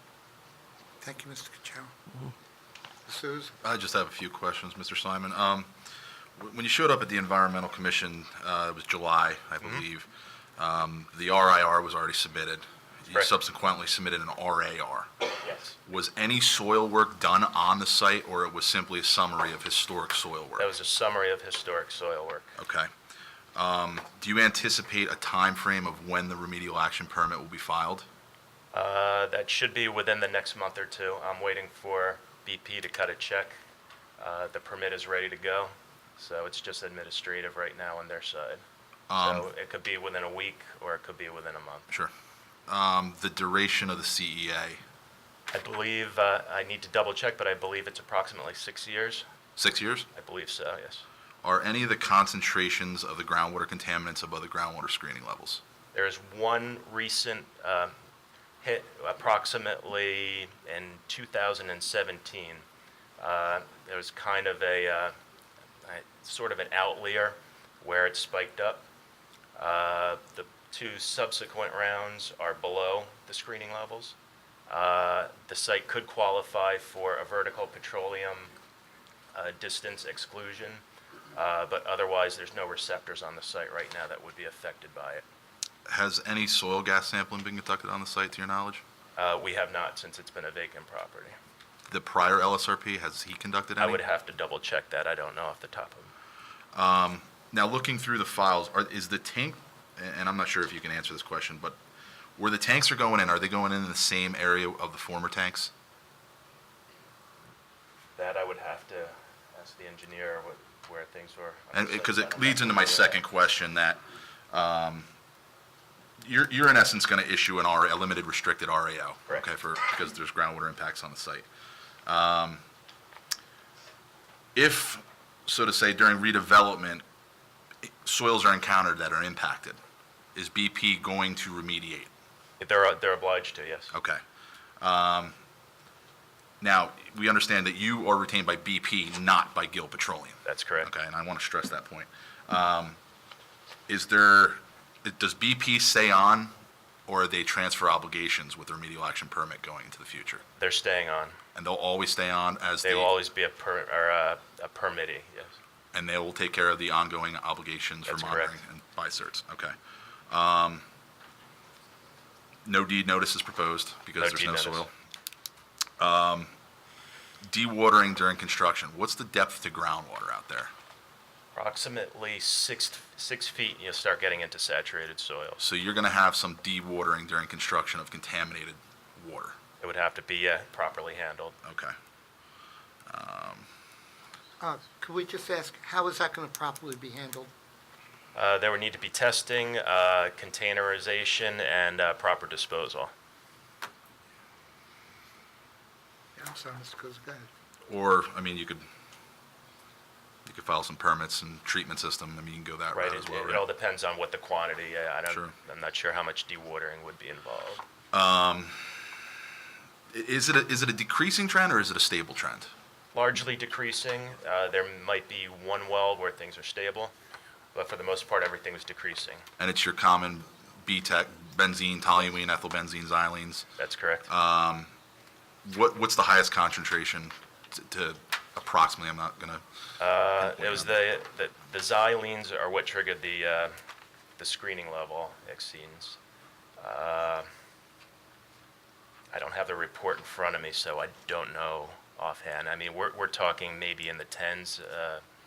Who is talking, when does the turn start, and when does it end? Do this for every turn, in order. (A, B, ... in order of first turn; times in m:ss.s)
0:01.0-0:01.9 A
0:03.1-0:03.5 A
0:03.6-0:05.7 B
0:06.4-0:15.1 B
0:15.4-0:15.8 C
0:15.9-0:20.7 B
0:20.6-0:22.5 C
0:22.6-0:22.9 B
0:23.6-0:28.1 B
0:28.7-0:33.6 C
0:34.2-0:38.6 C
0:39.1-0:39.5 B
0:39.2-0:41.9 C
0:42.7-0:44.8 B
0:45.5-0:49.3 C
0:49.6-0:50.1 B
0:50.2-0:51.0 C
0:51.4-0:55.6 B
0:55.9-0:58.0 C
0:58.6-1:02.6 C
1:03.2-1:05.2 C
1:05.8-1:08.9 C
1:09.6-1:14.2 C
1:14.7-1:18.5 C
1:19.3-1:20.8 C
1:21.4-1:25.2 C
1:25.9-1:28.8 B
1:29.2-1:31.4 C
1:31.9-1:34.0 B
1:33.8-1:36.1 C
1:36.7-1:41.8 B
1:42.4-1:45.7 B
1:48.2-1:53.2 C
1:51.7-1:54.0 B
1:54.5-1:55.1 B
1:56.2-2:01.5 B
2:02.1-2:02.6 B
2:04.6-2:07.0 B
2:08.0-2:09.8 B
2:10.4-2:12.1 B
2:12.6-2:13.9 C
2:13.9-2:14.2 B
2:14.8-2:15.4 B
2:16.6-2:23.0 B
2:20.4-2:20.9 C
2:23.9-2:26.5 B
2:27.1-2:30.4 B
2:30.6-2:31.4 C
2:31.6-2:33.1 B
2:32.8-2:35.6 C
2:35.9-2:39.8 B
2:38.1-2:38.6 C
2:40.3-2:40.8 B
2:42.6-2:44.9 B
2:44.2-2:44.9 C
2:46.0-2:46.5 B
2:47.5-2:50.7 B
2:51.5-2:55.6 C
2:55.6-2:59.6 B
2:59.8-3:01.6 C
3:01.6-3:01.9 B
3:03.1-3:03.7 B
3:04.6-3:07.5 A
3:08.4-3:13.1 C
3:16.4-3:17.5 A
3:17.9-3:18.8 B
3:20.5-3:23.6 B
3:22.9-3:27.8 C
3:28.1-3:28.9 B
3:30.1-3:32.7 B
3:33.1-3:37.1 C
3:37.7-3:39.4 C
3:39.6-3:43.7 B
3:43.8-3:44.3 C
3:44.3-3:44.9 B
3:45.6-3:49.6 B
3:50.0-3:53.8 C
3:50.4-3:51.0 B
3:54.4-3:56.2 C
3:56.8-3:57.5 C
3:59.3-4:05.2 C